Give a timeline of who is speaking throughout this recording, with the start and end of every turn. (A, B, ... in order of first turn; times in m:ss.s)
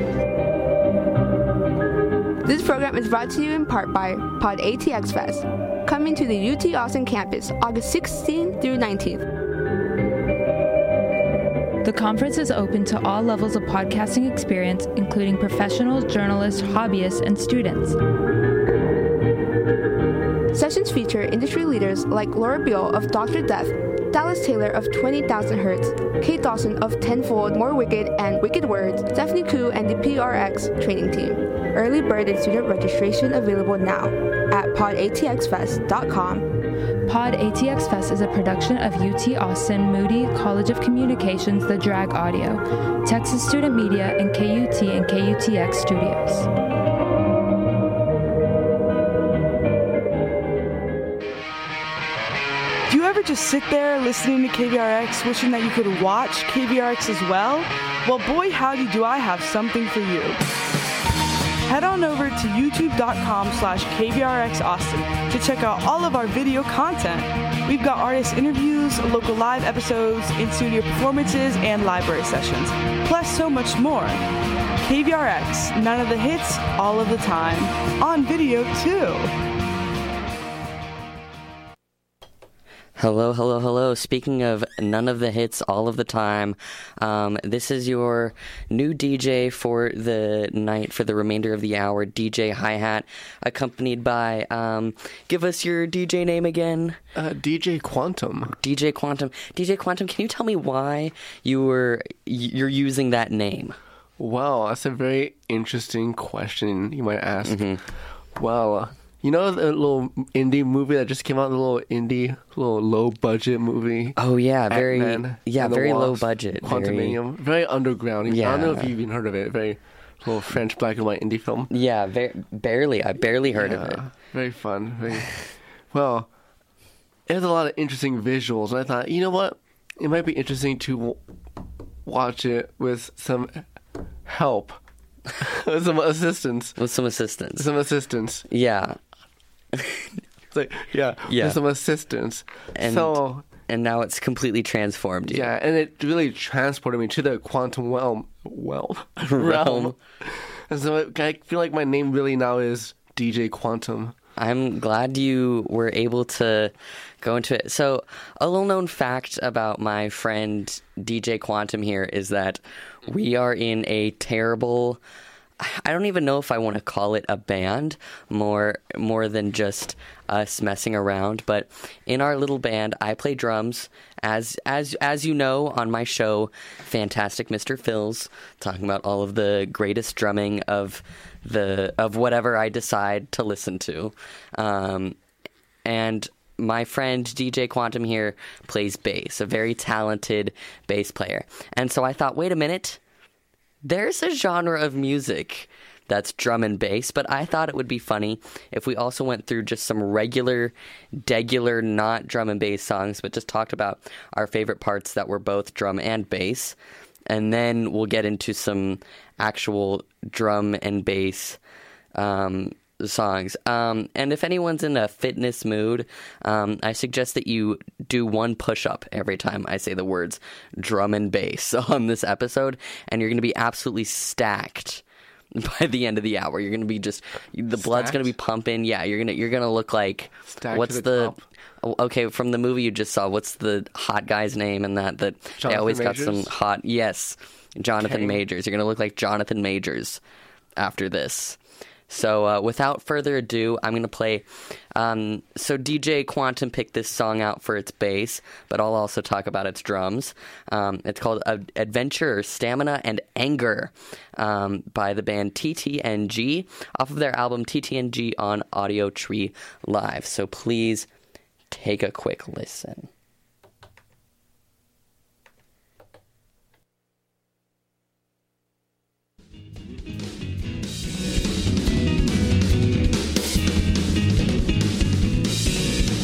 0:02.4-0:09.2 A
0:11.8-0:18.0 B
0:20.5-0:36.5 A
0:37.1-0:46.5 B
0:52.9-1:00.4 C
1:01.6-1:14.3 C
1:14.8-1:19.3 C
1:23.0-1:37.0 D
1:37.1-1:38.6 E
1:38.6-1:43.8 D
1:44.2-1:54.2 E
1:47.4-1:47.8 D
1:54.2-1:57.2 D
1:54.7-2:01.7 E
1:58.3-1:58.9 D
2:01.7-2:04.0 D
2:03.5-2:05.3 E
2:05.9-2:06.3 E
2:07.3-2:11.2 E
2:12.0-2:13.7 E
2:14.2-2:14.8 E
2:15.4-2:16.8 E
2:16.8-2:17.7 D
2:17.6-2:18.4 E
2:18.5-2:19.0 D
2:19.7-2:20.1 D
2:20.5-2:23.5 E
2:21.3-2:21.6 D
2:22.8-2:25.5 D
2:25.3-2:34.1 E
2:29.3-2:30.0 D
2:34.4-2:45.0 D
2:45.6-3:05.2 D
3:05.8-3:13.0 D
3:13.8-3:26.8 D
3:27.3-3:31.6 D
3:32.1-3:45.0 D
3:45.5-4:00.2 D
3:47.7-3:48.3 E
3:50.5-3:51.4 E
3:55.6-3:56.5 E
3:58.0-3:58.4 E
4:00.8-4:01.6 D
4:02.1-4:21.1 D
4:21.7-4:23.1 D